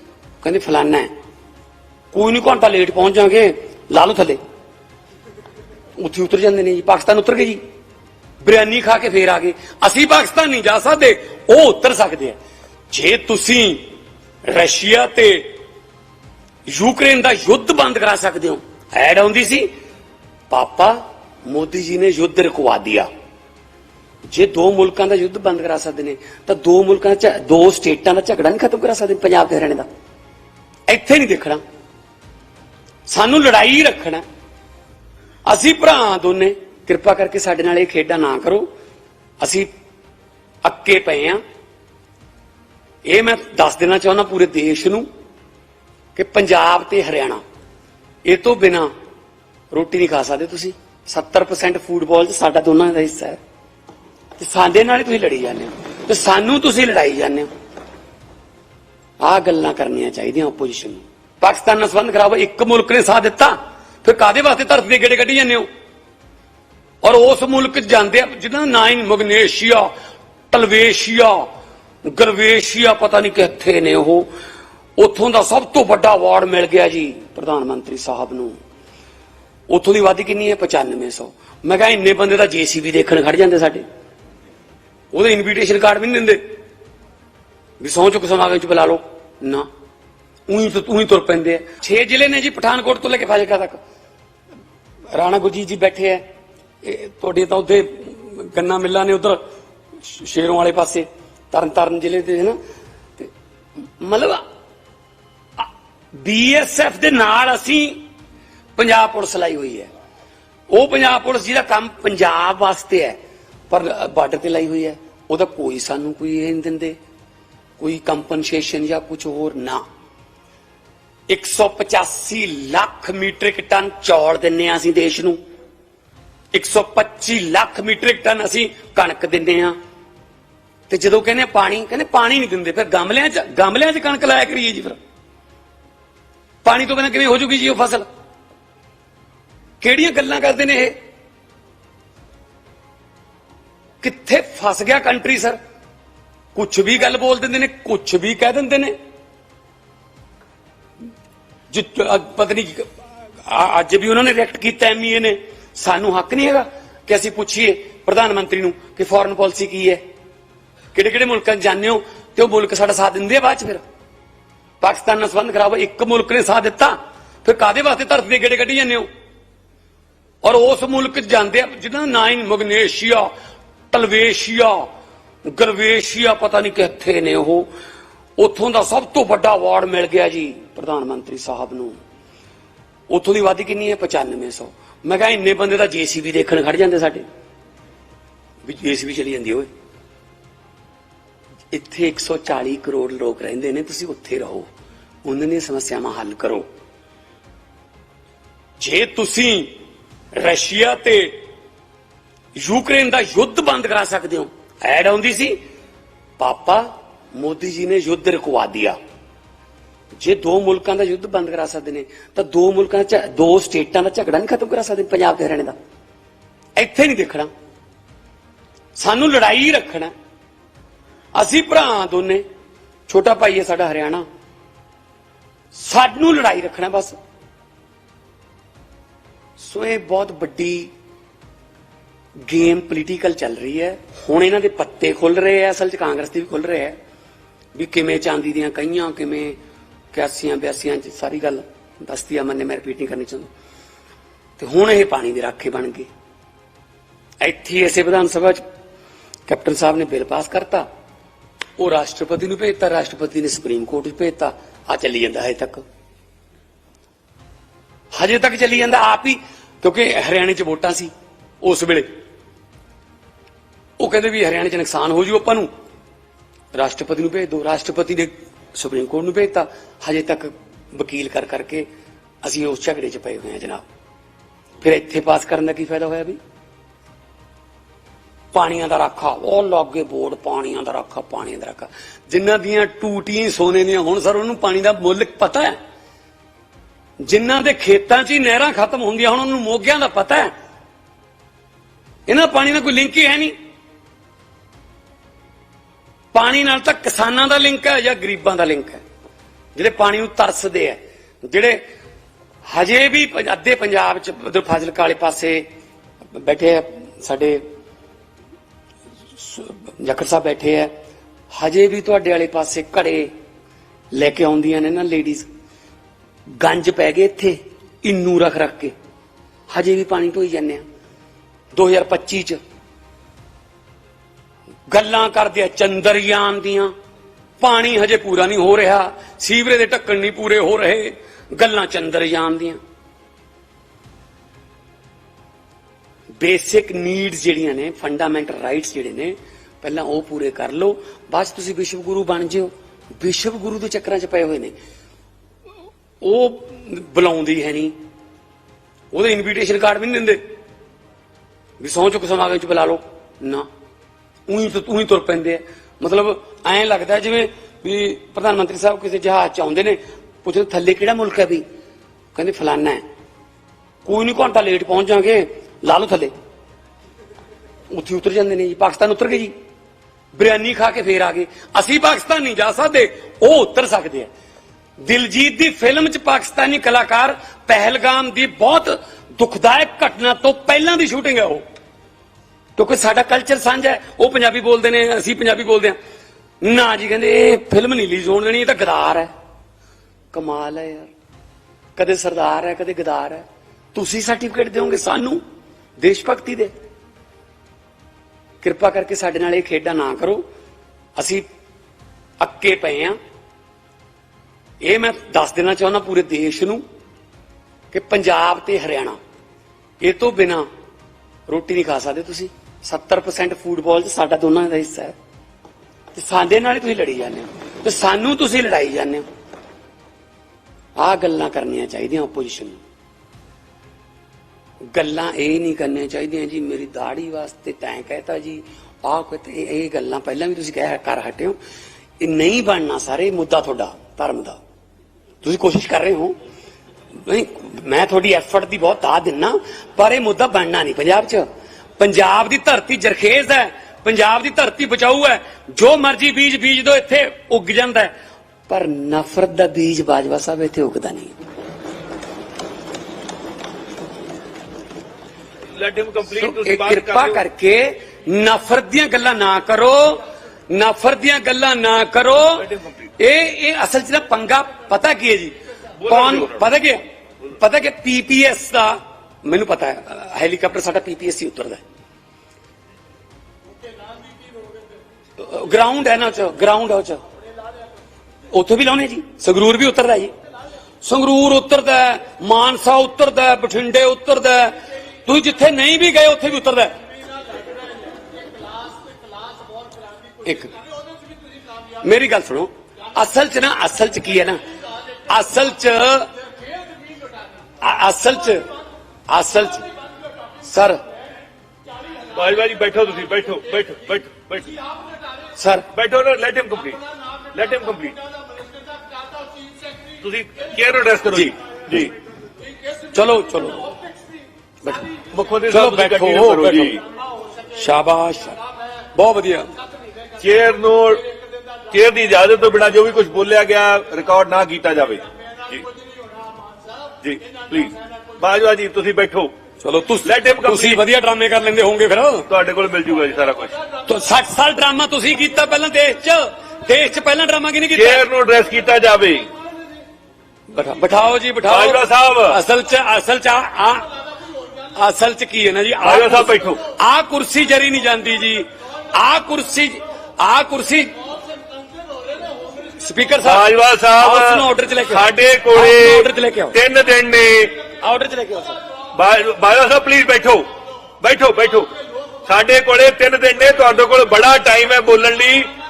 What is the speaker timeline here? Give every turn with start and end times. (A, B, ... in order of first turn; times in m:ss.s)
0:00.4-0:01.1 A
0:02.1-0:04.4 A
0:06.0-0:07.6 A
0:08.4-0:12.4 A
0:12.9-0:13.8 A
0:14.4-0:15.6 A
0:16.7-0:19.7 A
0:20.5-0:23.1 A
0:24.3-0:29.8 A
0:30.9-0:31.6 A
0:33.1-0:34.2 A
0:35.5-0:38.7 A
0:39.4-0:39.7 A
0:40.6-0:41.4 A
0:43.0-0:45.0 A
0:46.1-0:47.4 A
0:48.2-0:48.9 A
0:49.7-0:53.4 A
0:54.4-0:57.5 A
0:59.2-1:05.7 A
1:07.0-1:09.9 A
1:10.5-1:11.5 A
1:12.0-1:14.3 A
1:15.0-1:18.6 A
1:19.7-1:23.8 A
1:25.1-1:26.4 A
1:27.8-1:29.7 A
1:30.5-1:33.8 A
1:35.1-1:36.2 A
1:36.8-1:39.4 A
1:40.0-1:42.6 A
1:44.0-1:44.4 A
1:45.6-1:48.0 A
1:48.8-1:49.9 A
1:50.7-1:53.2 A
1:53.7-1:57.0 A
1:57.8-1:59.8 A
2:01.3-2:05.4 A
2:06.5-2:09.8 A
2:10.9-2:15.0 A
2:16.6-2:18.0 A
2:19.8-2:20.9 A
2:24.0-2:25.6 A
2:26.5-2:28.9 A
2:31.7-2:40.0 A
2:40.9-2:43.8 A
2:44.8-2:49.0 A
2:50.4-2:53.3 A
2:53.9-2:54.9 A
2:55.5-2:57.7 A
2:58.4-3:02.0 A
3:03.1-3:07.2 A
3:08.6-3:09.7 A
3:11.7-3:14.7 A
3:15.2-3:16.6 A
3:18.8-3:19.7 A
3:20.3-3:21.4 A
3:22.6-3:25.6 A
3:26.4-3:29.0 A
3:30.2-3:35.7 A
3:36.8-3:37.5 A
3:39.0-3:40.1 A
3:41.3-3:42.4 A
3:43.1-3:44.2 A
3:45.7-3:47.1 A
3:49.6-3:50.9 A
3:52.4-3:57.0 A
3:57.7-3:59.6 A
4:00.1-4:03.5 A
4:04.6-4:06.1 A
4:07.4-4:08.6 A
4:09.5-4:10.8 A
4:11.8-4:15.8 A
4:18.1-4:22.1 A
4:24.0-4:25.7 A
4:26.7-4:31.9 A
4:32.4-4:33.8 A
4:34.8-4:36.4 A
4:38.5-4:45.8 A
4:47.2-4:50.5 A
4:52.3-4:53.5 A
4:56.3-4:59.0 A
4:59.8-5:01.8 A
5:02.6-5:05.6 A
5:06.3-5:07.6 A
5:09.4-5:10.9 A
5:11.5-5:13.3 A
5:14.1-5:15.5 A
5:16.5-5:18.9 A
5:19.7-5:20.8 A
5:21.7-5:22.6 A
5:24.9-5:26.9 A
5:27.6-5:32.8 A
5:36.4-5:44.7 A
5:46.2-5:47.9 A
5:49.1-5:50.4 A
5:51.8-5:53.7 A
5:54.5-6:01.6 A
6:02.3-6:03.0 A
6:04.0-6:06.3 A
6:07.9-6:09.5 A
6:10.3-6:14.3 A
6:15.0-6:21.6 A
6:22.8-6:26.0 A
6:26.6-6:29.3 A
6:30.3-6:31.1 A
6:32.0-6:35.4 A
6:36.0-6:36.7 A
6:38.6-6:40.4 A
6:41.2-6:41.4 A
6:42.4-6:43.2 A
6:44.8-6:46.8 A
6:47.9-6:49.2 A
6:50.0-6:50.6 A
6:51.5-6:55.1 A
6:56.1-6:59.2 A
7:01.0-7:02.8 A
7:04.9-7:11.6 A
7:12.2-7:14.6 A
7:15.4-7:16.4 A
7:17.2-7:21.4 A
7:22.0-7:28.1 A
7:28.7-7:31.3 A
7:35.7-7:37.4 B
7:36.4-7:42.6 A
7:42.5-7:43.1 B
7:43.2-7:45.5 A
7:46.0-7:46.6 B
7:46.0-7:51.8 A
7:55.4-7:57.2 A
7:58.5-8:00.3 A
8:01.0-8:07.0 A
8:10.4-8:10.7 A
8:12.0-8:14.6 A
8:15.3-8:16.3 A
8:17.8-8:18.7 A
8:19.3-8:19.9 A
8:20.6-8:21.0 A
8:22.3-8:24.8 B
8:25.6-8:25.9 A
8:25.9-8:27.0 B
8:27.5-8:28.2 B
8:30.2-8:32.1 B
8:33.1-8:33.9 A
8:34.8-8:35.1 A
8:35.2-8:37.0 B
8:35.7-8:37.0 A
8:37.7-8:38.6 A
8:39.1-8:39.7 A
8:40.4-8:41.2 B
8:41.9-8:45.8 B
8:47.2-8:49.5 B
8:49.8-8:52.5 A
8:50.2-8:51.0 B
8:52.5-8:53.8 B
8:54.0-8:58.2 A
8:57.9-8:59.5 B
9:00.7-9:04.1 A
9:01.7-9:02.6 B
9:04.9-9:11.2 A
9:06.0-9:06.8 B
9:13.0-9:13.6 A
9:13.4-9:17.8 B
9:14.2-9:16.8 A
9:18.0-9:18.8 A
9:19.1-9:20.6 B
9:21.2-9:21.9 B
9:22.4-9:25.7 B